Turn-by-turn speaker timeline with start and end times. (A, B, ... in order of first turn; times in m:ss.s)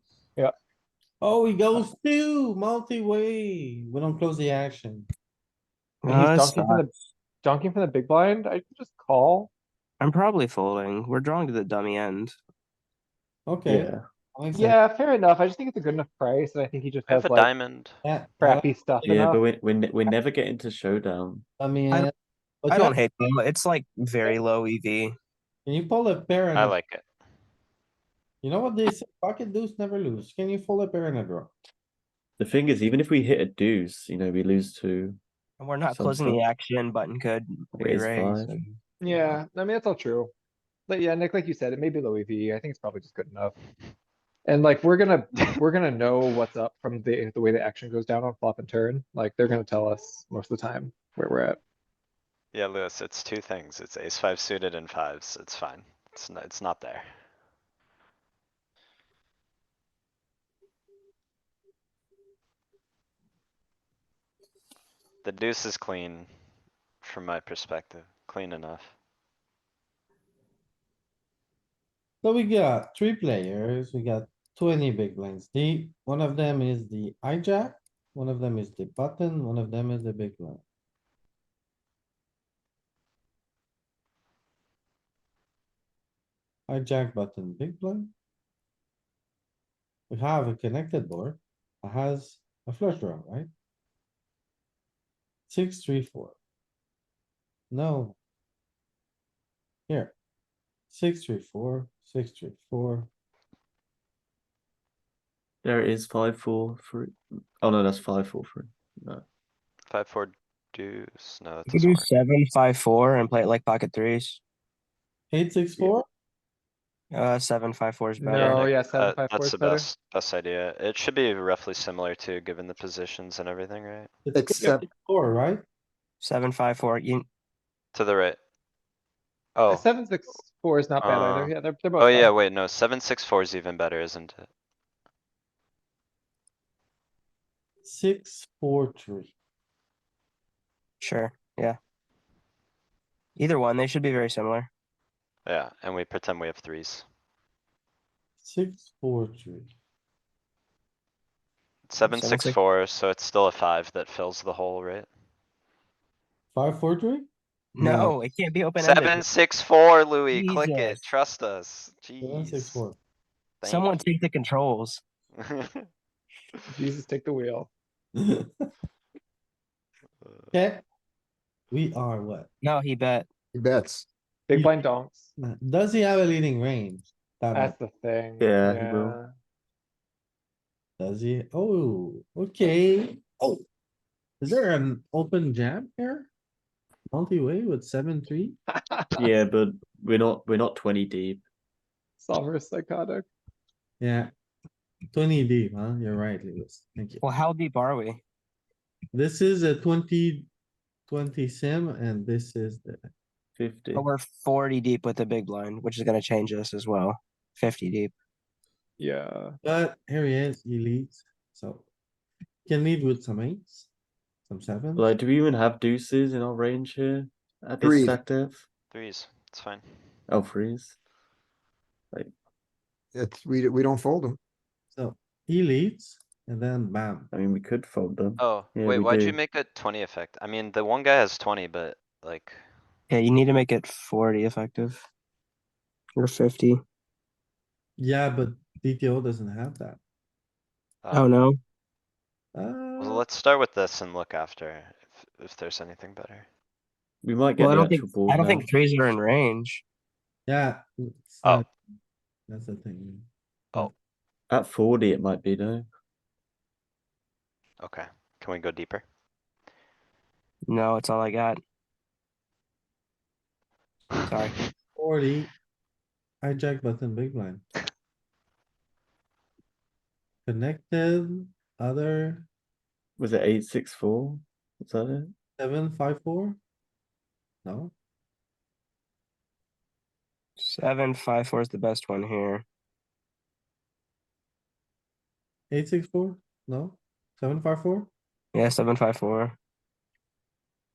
0:01.2-0:05.1 A
0:06.0-0:06.8 B
0:06.0-0:09.5 C
0:10.0-0:12.3 B
0:13.5-0:14.7 A
0:13.7-0:14.0 D
0:14.5-0:17.5 C
0:17.1-0:18.0 E
0:18.0-0:19.1 A
0:18.4-0:19.4 C
0:19.0-0:21.4 D
0:21.6-0:22.1 A
0:22.6-0:23.0 A
0:22.7-0:25.1 B
0:25.6-0:26.8 A
0:26.5-0:27.0 E
0:28.4-0:31.5 A
0:32.4-0:35.2 D
0:35.6-0:38.8 B
0:35.9-0:36.4 D
0:37.8-0:38.6 D
0:39.0-0:40.3 C
0:40.9-0:43.6 C
0:44.4-0:51.6 C
0:52.5-0:57.1 E
1:05.2-1:06.3 E
1:07.0-1:08.9 E
1:12.2-1:20.6 A
1:26.7-1:28.1 A
1:30.1-1:33.5 A
1:35.5-1:36.4 A
1:37.7-1:38.2 A
1:39.9-1:40.1 A
1:40.9-1:43.1 A
1:45.6-1:49.2 D
1:49.9-1:52.1 E
1:51.7-1:54.4 B
1:55.3-1:56.0 A
1:57.1-1:58.7 B
1:58.2-1:59.9 C
1:58.3-2:04.1 E
2:04.2-2:05.6 A
2:04.3-2:04.8 F
2:06.2-2:07.2 B
2:07.9-2:08.4 E
2:09.6-2:09.8 E
2:09.7-2:12.3 C
2:11.0-2:14.5 E
2:17.8-2:19.3 A
2:21.0-2:21.8 B
2:23.4-2:24.7 B
2:25.4-2:27.0 E
2:28.4-2:29.7 A
2:31.9-2:35.1 E
2:32.1-2:32.6 B
2:36.5-2:37.3 A
2:37.7-2:39.2 B
2:37.8-2:38.1 A
2:38.8-2:42.8 E
2:40.3-2:41.0 B
2:42.2-2:43.0 A
2:43.6-2:44.0 E
2:43.6-2:45.0 B
2:45.3-2:45.9 E
2:46.7-2:47.7 C
2:48.2-2:48.6 A
2:50.2-2:50.5 E
2:50.5-2:50.8 A
2:51.7-2:52.5 A
2:52.6-2:53.3 B
2:53.5-2:54.0 F
2:54.5-2:55.3 C
2:55.4-2:57.7 A
2:57.5-2:59.3 C
2:58.4-2:59.2 D
3:01.0-3:03.6 A
3:04.4-3:06.3 A
3:07.1-3:08.6 A
3:08.9-3:09.3 C
3:09.2-3:11.4 D
3:12.2-3:13.3 C
3:14.0-3:14.3 A
3:15.1-3:17.2 A
3:17.2-3:18.2 B
3:19.1-3:20.5 A
3:21.1-3:23.1 A
3:23.6-3:24.0 D
3:23.9-3:28.1 B
3:29.0-3:29.6 C
3:29.6-3:31.9 A
3:32.6-3:33.9 A
3:34.5-3:35.1 A
3:35.0-3:38.6 D
3:37.8-3:38.2 F
3:38.9-3:39.9 E
3:40.3-3:41.0 D
3:43.1-3:44.4 F
3:44.9-3:47.3 A
3:47.3-3:49.4 D
3:48.4-3:52.6 E
3:53.1-3:55.0 B
3:56.2-3:56.8 B
3:58.0-4:00.0 A
4:01.0-4:01.3 E
4:01.1-4:01.6 B
4:02.5-4:03.2 A
4:03.0-4:06.5 E
4:07.2-4:08.7 D
4:07.6-4:09.8 B
4:10.5-4:11.7 A
4:12.5-4:13.3 A
4:14.5-4:15.9 D
4:17.8-4:19.0 E
4:20.7-4:21.6 B
4:24.2-4:24.6 B
4:25.0-4:25.5 A
4:26.4-4:27.6 A
4:30.4-4:32.5 A
4:33.2-4:35.3 D
4:35.6-4:36.6 A
4:37.6-4:37.9 A
4:40.6-4:42.6 B
4:45.7-4:48.1 A
4:48.5-4:49.6 B